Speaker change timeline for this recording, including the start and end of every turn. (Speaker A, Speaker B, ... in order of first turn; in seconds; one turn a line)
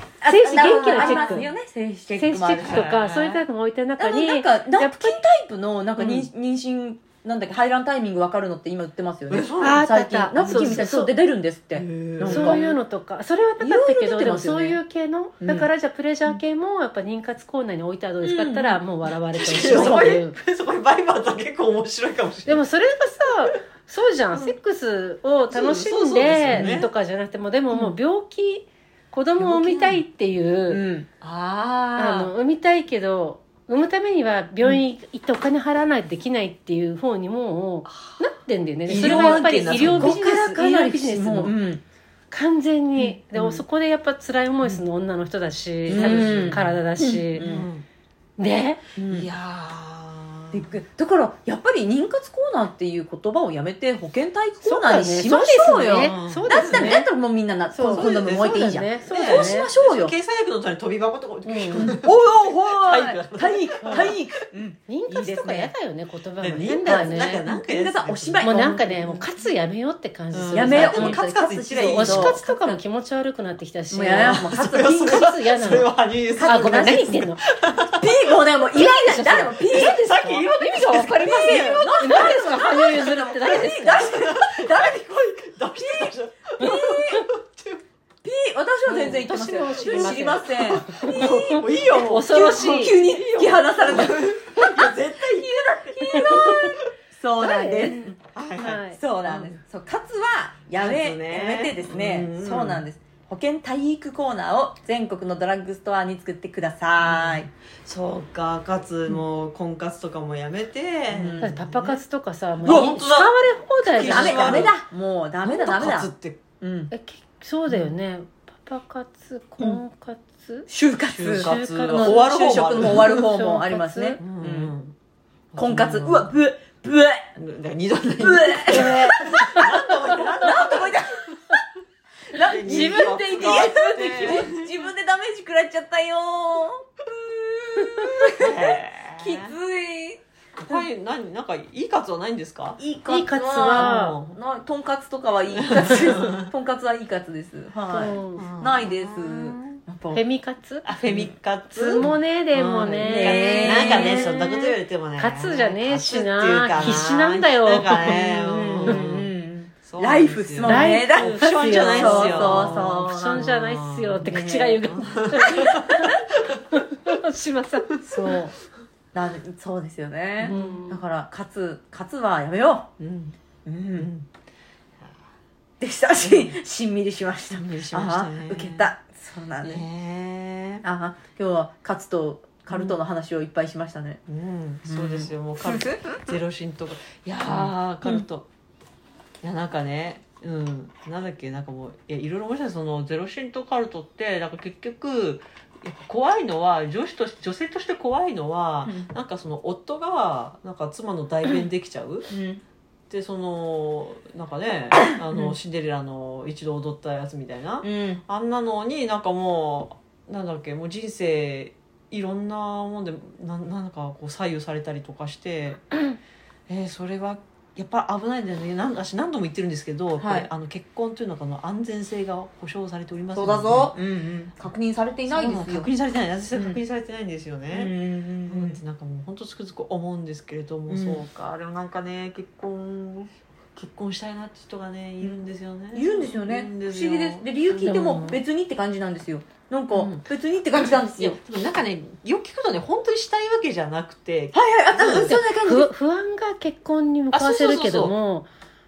Speaker A: 0.2-2.9
Speaker B: 0.3-1.5
Speaker C: 0.7-1.5
Speaker B: 2.1-5.2
Speaker C: 2.5-3.4
Speaker A: 4.0-12.6
Speaker C: 6.0-6.3
Speaker C: 9.3-10.8
Speaker B: 9.6-11.1
Speaker C: 11.8-12.8
Speaker B: 12.3-20.4
Speaker A: 13.6-14.8
Speaker A: 15.4-15.7
Speaker A: 18.2-18.8
Speaker C: 19.4-22.6
Speaker A: 19.5-20.0
Speaker B: 22.5-30.8
Speaker C: 25.5-26.9
Speaker C: 29.4-30.0
Speaker A: 30.7-31.1
Speaker C: 31.2-32.3
Speaker B: 32.0-41.5
Speaker C: 37.9-38.2
Speaker C: 38.9-40.2
Speaker A: 38.9-41.8
Speaker B: 42.3-47.5
Speaker C: 43.3-43.6
Speaker C: 45.9-46.8
Speaker A: 45.9-47.7
Speaker C: 47.4-47.9
Speaker B: 48.4-48.8
Speaker A: 49.0-49.3
Speaker C: 49.1-50.7
Speaker A: 50.5-60.1
Speaker B: 54.6-57.1
Speaker C: 56.0-57.0
Speaker B: 57.7-59.7
Speaker C: 57.9-64.2
Speaker B: 61.5-62.0
Speaker A: 61.8-65.7
Speaker B: 63.8-64.1
Speaker B: 64.9-67.4
Speaker C: 66.4-69.3
Speaker A: 66.8-69.0
Speaker B: 68.4-77.4
Speaker C: 70.3-72.4
Speaker A: 70.5-72.8
Speaker A: 73.9-75.3
Speaker C: 74.2-78.1
Speaker A: 76.3-77.2
Speaker A: 77.9-80.5
Speaker B: 78.7-84.1
Speaker C: 79.7-82.8
Speaker A: 81.1-87.3
Speaker C: 83.8-87.8
Speaker B: 86.6-87.2
Speaker A: 88.2-98.2
Speaker B: 88.9-93.0
Speaker C: 89.8-96.9
Speaker B: 96.1-96.8
Speaker B: 97.4-99.0
Speaker C: 98.0-99.6
Speaker A: 98.9-107.5
Speaker C: 100.8-102.8
Speaker C: 107.0-112.0
Speaker A: 111.1-111.5
Speaker B: 111.4-114.7
Speaker C: 112.6-114.8
Speaker A: 112.6-113.0
Speaker A: 114.0-116.9
Speaker C: 115.4-116.4
Speaker B: 116.9-120.7
Speaker A: 120.7-124.7
Speaker C: 121.1-123.3
Speaker B: 121.3-124.2
Speaker C: 124.2-125.0
Speaker C: 125.5-126.3
Speaker A: 125.6-127.3
Speaker C: 127.4-131.3
Speaker A: 128.2-131.4
Speaker B: 128.7-129.9
Speaker A: 132.3-140.8
Speaker C: 132.4-134.7
Speaker B: 132.6-134.4
Speaker B: 137.8-138.1
Speaker C: 138.3-139.5
Speaker C: 140.6-142.8
Speaker A: 142.8-150.2
Speaker B: 143.1-144.2
Speaker C: 143.6-144.4
Speaker C: 145.6-146.5
Speaker B: 147.9-148.5
Speaker C: 148.4-149.8
Speaker B: 150.1-150.9
Speaker C: 150.8-159.3
Speaker B: 151.7-158.2
Speaker A: 153.0-154.3
Speaker A: 158.1-163.5
Speaker C: 159.8-166.6
Speaker B: 160.6-168.0
Speaker A: 164.2-164.9
Speaker A: 168.0-168.6
Speaker A: 169.1-172.9
Speaker C: 170.4-170.8
Speaker B: 170.4-171.0
Speaker C: 173.0-173.4
Speaker A: 173.7-174.1
Speaker C: 174.0-174.3
Speaker A: 175.8-179.8
Speaker C: 176.2-176.6
Speaker C: 177.5-178.9
Speaker C: 179.6-180.8
Speaker A: 180.8-184.2
Speaker C: 182.7-183.0
Speaker C: 184.3-188.5
Speaker A: 184.9-186.3
Speaker A: 187.5-188.2
Speaker C: 189.4-202.3
Speaker A: 198.8-199.1
Speaker A: 202.3-202.6
Speaker C: 203.1-215.8
Speaker A: 207.8-208.2
Speaker C: 216.7-224.0
Speaker A: 220.2-220.5
Speaker A: 223.3-225.9
Speaker C: 225.3-227.9
Speaker A: 226.5-226.8
Speaker A: 227.7-228.8
Speaker C: 228.5-238.4
Speaker A: 230.9-231.2
Speaker A: 235.9-241.4
Speaker B: 237.8-238.4
Speaker C: 239.9-245.4
Speaker A: 244.5-245.9
Speaker B: 245.1-248.5
Speaker C: 247.3-248.1